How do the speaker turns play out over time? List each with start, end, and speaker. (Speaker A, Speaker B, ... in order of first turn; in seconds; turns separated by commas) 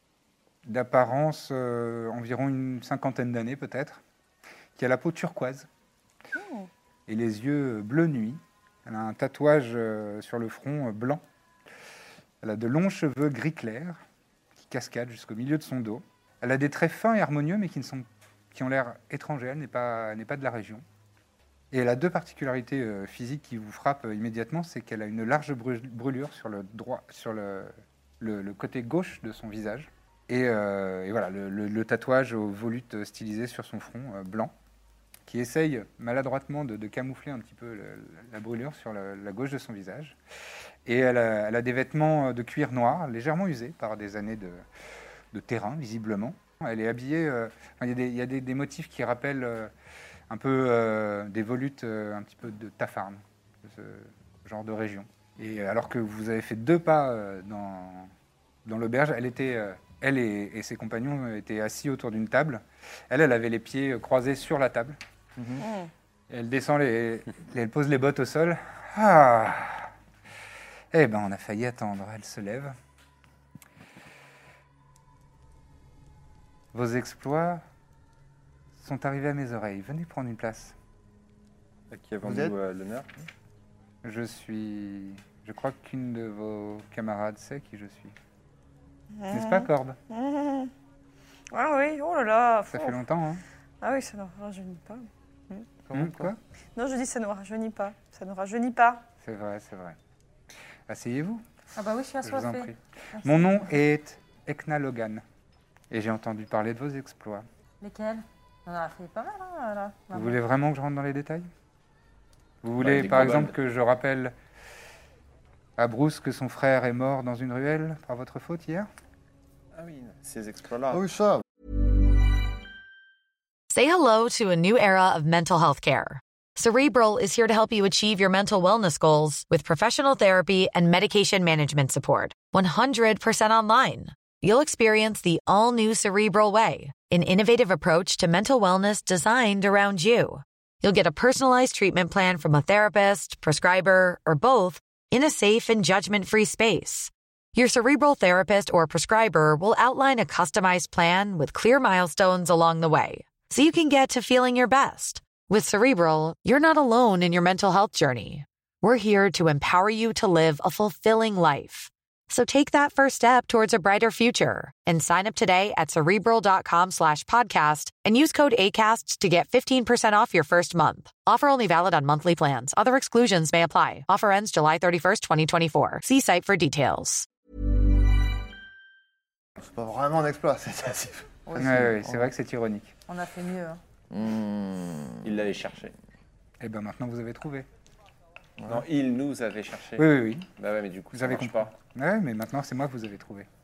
Speaker A: 0.6-4.0, Speaker A: 4.8-5.7, Speaker B: 6.3-6.7, Speaker A: 7.1-11.2, Speaker A: 12.4-14.0, Speaker A: 14.6-20.8, Speaker A: 21.7-34.5, Speaker A: 35.2-40.2, Speaker A: 40.9-44.6, Speaker A: 45.3-49.7, Speaker A: 50.3-58.1, Speaker A: 58.6-65.0, Speaker C: 65.3-65.6, Speaker B: 65.6-65.9, Speaker A: 66.3-69.9, Speaker A: 70.9-72.7, Speaker A: 76.7-77.6, Speaker A: 78.8-80.7, Speaker D: 81.9-83.1, Speaker C: 82.2-82.5, Speaker A: 84.0-88.1, Speaker B: 89.1-90.7, Speaker A: 89.3-90.0, Speaker B: 91.5-93.0, Speaker A: 92.7-93.4, Speaker B: 93.8-95.7, Speaker C: 95.9-96.3, Speaker A: 95.9-96.4, Speaker B: 96.8-99.0, Speaker A: 99.2-100.0, Speaker A: 100.9-101.4, Speaker E: 101.7-103.6, Speaker A: 102.2-105.2, Speaker A: 105.9-107.4, Speaker E: 107.8-110.4, Speaker A: 110.1-111.5, Speaker A: 112.6-114.3, Speaker D: 112.8-113.5, Speaker A: 115.8-118.9, Speaker D: 119.7-121.0, Speaker C: 120.9-121.4, Speaker F: 123.7-177.3, Speaker C: 179.6-182.3, Speaker E: 181.5-181.8, Speaker A: 181.6-182.9, Speaker E: 183.1-183.8, Speaker C: 184.1-185.3, Speaker D: 185.2-185.9, Speaker A: 186.6-187.7, Speaker C: 188.6-188.8, Speaker D: 188.7-191.7, Speaker A: 190.0-190.5, Speaker A: 191.1-193.5